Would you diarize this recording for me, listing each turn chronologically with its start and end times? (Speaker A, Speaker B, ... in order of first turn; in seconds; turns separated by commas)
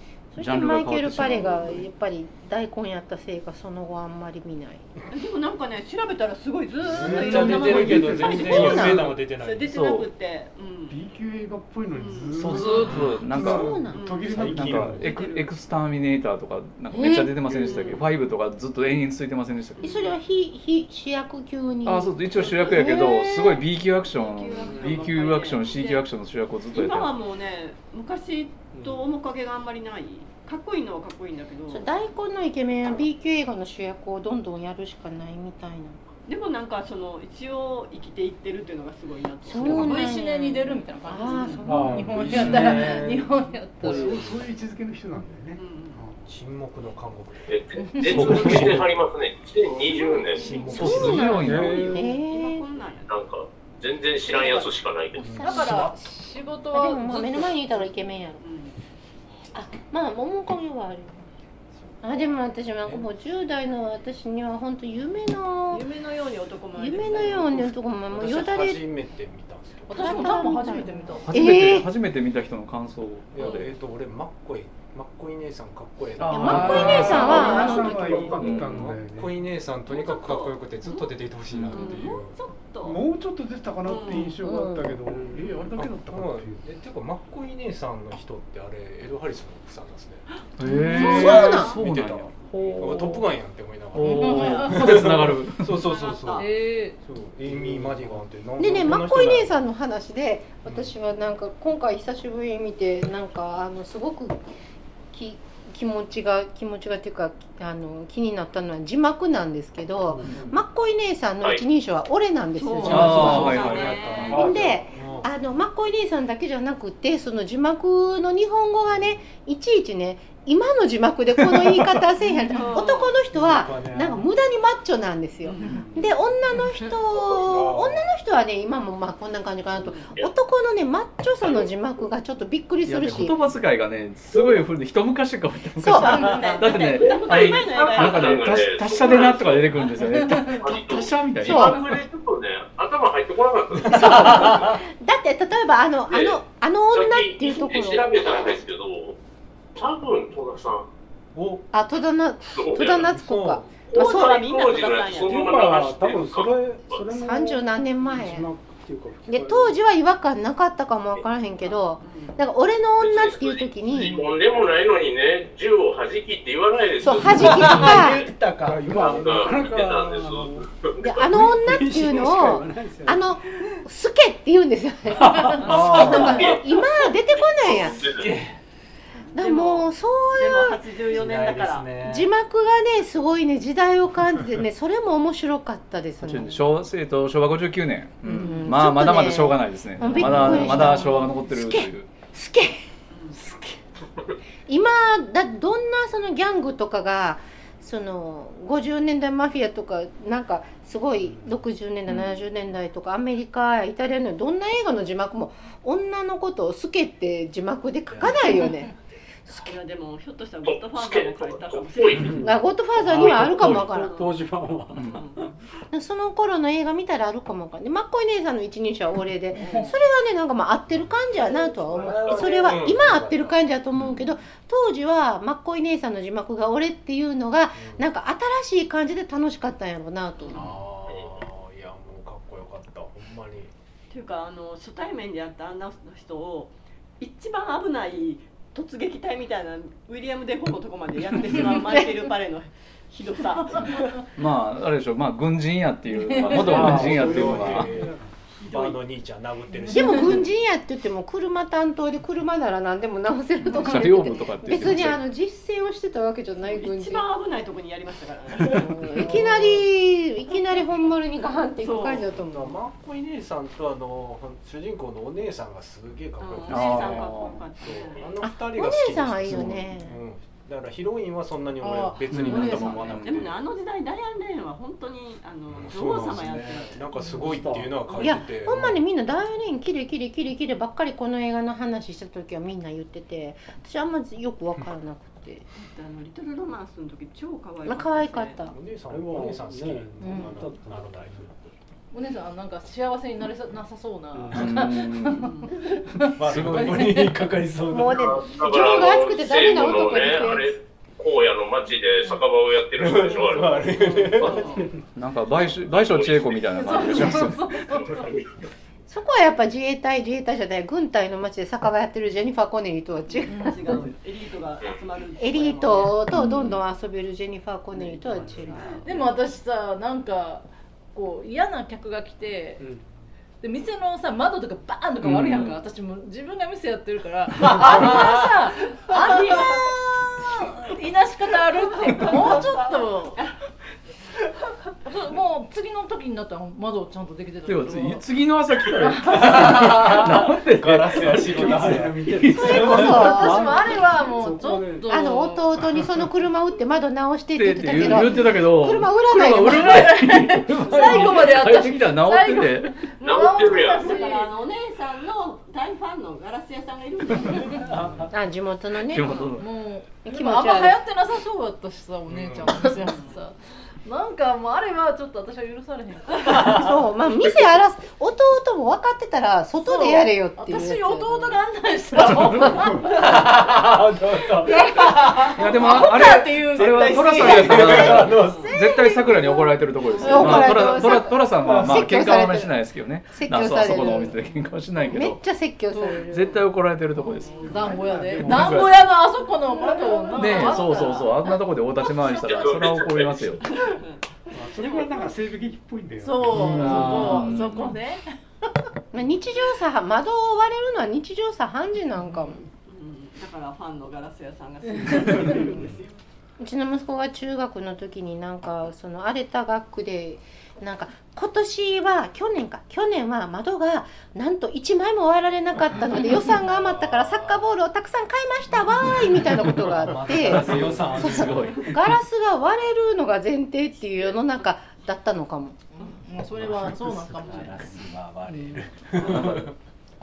Speaker A: 0.3-4.9, Speaker B: 0.4-1.9, Speaker C: 5.1-11.0, Speaker D: 6.8-9.8, Speaker E: 7.0-8.4, Speaker A: 8.3-9.2, Speaker B: 9.7-10.1, Speaker E: 10.9-15.0, Speaker C: 11.9-12.9, Speaker B: 12.3-20.0, Speaker D: 12.9-13.5, Speaker A: 13.4-14.1, Speaker C: 13.9-15.5, Speaker D: 14.3-14.9, Speaker A: 16.9-17.5, Speaker D: 17.5-17.9, Speaker C: 17.6-18.0, Speaker C: 19.8-20.1, Speaker A: 19.8-23.7, Speaker B: 21.9-27.1, Speaker C: 24.1-26.1, Speaker C: 26.7-31.9, Speaker F: 28.8-29.0, Speaker A: 31.7-36.0, Speaker C: 36.3-40.1, Speaker A: 39.5-42.1, Speaker G: 39.6-44.3, Speaker C: 41.2-41.7, Speaker F: 41.6-43.0, Speaker D: 41.7-44.5, Speaker B: 42.4-42.7, Speaker E: 43.8-46.2, Speaker C: 45.5-46.0, Speaker D: 46.2-48.9, Speaker H: 47.5-50.5, Speaker G: 47.8-48.6, Speaker B: 48.3-48.6, Speaker C: 49.9-53.1, Speaker D: 50.3-51.4, Speaker A: 50.7-52.6, Speaker B: 50.8-51.9, Speaker F: 51.3-52.1, Speaker H: 53.1-55.4, Speaker D: 55.1-55.9, Speaker A: 55.2-56.0, Speaker G: 55.4-57.7, Speaker A: 56.7-58.4, Speaker C: 58.4-58.8, Speaker A: 59.5-61.3, Speaker A: 62.0-65.8, Speaker C: 65.7-67.7, Speaker A: 66.8-68.8, Speaker D: 67.0-70.5, Speaker G: 69.9-71.3, Speaker A: 69.9-71.9, Speaker B: 71.2-73.6, Speaker D: 73.3-82.4, Speaker C: 73.4-73.7, Speaker B: 76.2-77.5, Speaker A: 76.3-78.3, Speaker G: 76.4-78.2, Speaker E: 76.6-79.4, Speaker C: 76.9-78.5, Speaker B: 78.4-79.0, Speaker C: 79.9-81.1, Speaker B: 81.5-82.0, Speaker C: 81.7-83.0, Speaker E: 82.8-86.6, Speaker C: 83.8-84.4, Speaker A: 84.4-85.0, Speaker F: 85.1-85.3, Speaker D: 85.1-90.3, Speaker C: 90.4-91.8, Speaker B: 90.6-93.3, Speaker G: 90.7-91.2, Speaker A: 90.9-91.8, Speaker D: 91.0-99.6, Speaker B: 93.9-95.8, Speaker G: 94.0-95.0, Speaker C: 95.8-96.5, Speaker G: 96.4-97.0, Speaker F: 97.4-98.2, Speaker A: 98.6-104.4, Speaker D: 100.7-100.9, Speaker A: 105.1-113.7, Speaker F: 110.1-110.6, Speaker C: 112.5-114.4, Speaker D: 112.8-115.3, Speaker B: 112.9-114.5, Speaker A: 114.3-133.4, Speaker F: 114.3-114.8, Speaker D: 118.9-119.2, Speaker C: 122.5-123.2, Speaker D: 123.3-124.2, Speaker C: 125.4-125.7, Speaker B: 125.6-125.9, Speaker D: 127.4-128.0, Speaker C: 129.8-130.2, Speaker B: 132.8-142.0, Speaker H: 134.3-134.6, Speaker A: 135.8-136.7, Speaker C: 135.9-138.5, Speaker H: 136.8-139.9, Speaker G: 140.1-140.6, Speaker H: 140.4-144.8, Speaker A: 141.4-141.8, Speaker A: 143.9-148.2, Speaker D: 143.9-144.7, Speaker H: 146.1-146.4, Speaker H: 146.9-149.2, Speaker H: 149.8-150.9, Speaker D: 151.3-151.7, Speaker A: 151.7-154.5, Speaker H: 152.6-153.1, Speaker D: 153.0-153.8, Speaker H: 153.9-157.1, Speaker C: 153.9-155.8, Speaker F: 155.2-159.8, Speaker A: 157.1-158.5, Speaker A: 159.3-164.3, Speaker C: 161.7-162.4, Speaker H: 163.0-168.3, Speaker A: 167.0-168.3, Speaker D: 167.3-169.6, Speaker F: 167.4-168.1, Speaker F: 168.6-170.7, Speaker H: 168.9-171.3, Speaker A: 171.0-178.1, Speaker F: 171.2-173.3, Speaker F: 175.2-176.5, Speaker C: 175.6-176.4, Speaker H: 175.8-176.6, Speaker H: 177.6-178.3, Speaker D: 178.1-178.6, Speaker C: 179.3-181.9, Speaker A: 179.3-180.8, Speaker D: 181.1-182.3, Speaker A: 182.0-186.6, Speaker B: 186.2-192.1, Speaker A: 188.2-192.8, Speaker C: 190.0-190.9, Speaker C: 193.1-193.4, Speaker A: 193.3-193.8, Speaker A: 194.7-208.9, Speaker B: 202.1-202.4, Speaker D: 208.1-208.5, Speaker A: 209.5-209.7, Speaker C: 209.5-212.4, Speaker H: 210.7-212.4, Speaker F: 212.2-215.2, Speaker A: 212.4-214.1, Speaker C: 213.7-215.5, Speaker B: 214.9-215.2, Speaker A: 215.9-230.7, Speaker G: 219.6-219.9, Speaker C: 219.6-219.9, Speaker D: 220.9-223.6, Speaker F: 222.0-222.8, Speaker B: 223.9-224.4, Speaker D: 227.8-228.1, Speaker C: 230.4-230.7, Speaker D: 230.5-233.7, Speaker C: 234.1-244.2, Speaker A: 241.7-242.1, Speaker B: 243.8-247.9, Speaker G: 243.8-244.2, Speaker G: 246.1-246.8, Speaker D: 246.5-250.5, Speaker F: 246.6-248.1, Speaker C: 248.6-249.0, Speaker G: 249.8-250.3, Speaker A: 249.9-257.3, Speaker B: 253.6-255.2, Speaker C: 256.6-259.6, Speaker A: 258.6-262.8, Speaker C: 261.8-262.3, Speaker D: 262.3-273.6, Speaker C: 266.4-268.3, Speaker B: 266.7-267.6, Speaker A: 268.4-270.2, Speaker B: 269.5-269.7, Speaker G: 271.8-273.2, Speaker B: 272.3-273.4, Speaker C: 273.2-277.0, Speaker D: 275.7-279.0, Speaker F: 277.3-278.1, Speaker A: 278.2-285.6, Speaker C: 285.8-288.7, Speaker A: 287.9-288.8, Speaker D: 288.7-291.7, Speaker F: 289.1-291.5, Speaker G: 292.1-297.4, Speaker F: 294.3-294.8, Speaker B: 294.5-295.5, Speaker C: 295.4-295.7, Speaker D: 296.3-298.5, Speaker B: 296.5-296.9, Speaker A: 297.9-300.8, Speaker H: 298.1-304.7, Speaker D: 302.9-304.9, Speaker C: 304.0-304.9, Speaker B: 305.1-308.0, Speaker H: 305.7-307.0, Speaker G: 306.7-308.3, Speaker H: 307.9-308.5, Speaker A: 309.1-313.7, Speaker C: 313.3-316.2, Speaker G: 313.5-314.0, Speaker A: 315.4-319.1, Speaker B: 316.3-316.8, Speaker C: 318.0-319.1, Speaker G: 319.0-322.8, Speaker G: 323.6-333.4, Speaker B: 325.2-325.8, Speaker D: 327.7-328.5, Speaker C: 329.3-329.7, Speaker C: 332.1-332.8, Speaker G: 335.1-338.3, Speaker B: 337.6-343.3, Speaker G: 339.0-339.8, Speaker D: 339.2-343.4, Speaker F: 341.4-345.1, Speaker A: 342.5-343.9, Speaker G: 343.1-345.8, Speaker A: 345.1-350.2, Speaker B: 347.6-353.1, Speaker G: 348.0-348.5, Speaker G: 349.5-354.6, Speaker C: 350.9-351.4, Speaker H: 353.2-354.2, Speaker C: 353.6-357.9, Speaker D: 357.9-358.3, Speaker F: 357.9-358.2, Speaker A: 358.3-359.5, Speaker B: 359.0-359.7, Speaker G: 359.6-366.9, Speaker A: 360.2-361.0, Speaker D: 362.3-362.9, Speaker C: 363.0-363.4, Speaker A: 366.5-371.6, Speaker G: 369.8-373.5, Speaker D: 373.0-375.6, Speaker G: 374.6-380.9, Speaker B: 375.5-385.4, Speaker D: 376.2-378.7, Speaker C: 378.0-378.8, Speaker A: 379.1-379.5, Speaker C: 380.0-380.7, Speaker A: 380.2-382.8, Speaker D: 381.6-382.1, Speaker A: 383.3-384.4, Speaker A: 385.1-386.5, Speaker G: 385.9-386.6, Speaker B: 386.3-387.8, Speaker C: 387.2-388.0, Speaker G: 387.4-392.7, Speaker E: 387.6-388.9, Speaker B: 388.3-389.1, Speaker B: 390.3-393.7, Speaker H: 392.3-393.5, Speaker C: 393.6-395.3, Speaker E: 394.5-397.5, Speaker G: 396.2-398.3, Speaker B: 396.5-398.0, Speaker D: 396.5-397.4, Speaker A: 399.1-402.6, Speaker C: 402.7-406.2, Speaker G: 405.0-405.6, Speaker D: 405.4-406.0, Speaker A: 406.6-425.8, Speaker D: 416.4-417.7, Speaker D: 419.1-421.9, Speaker B: 420.5-422.2, Speaker G: 426.0-427.9, Speaker D: 426.5-429.7, Speaker B: 429.2-429.7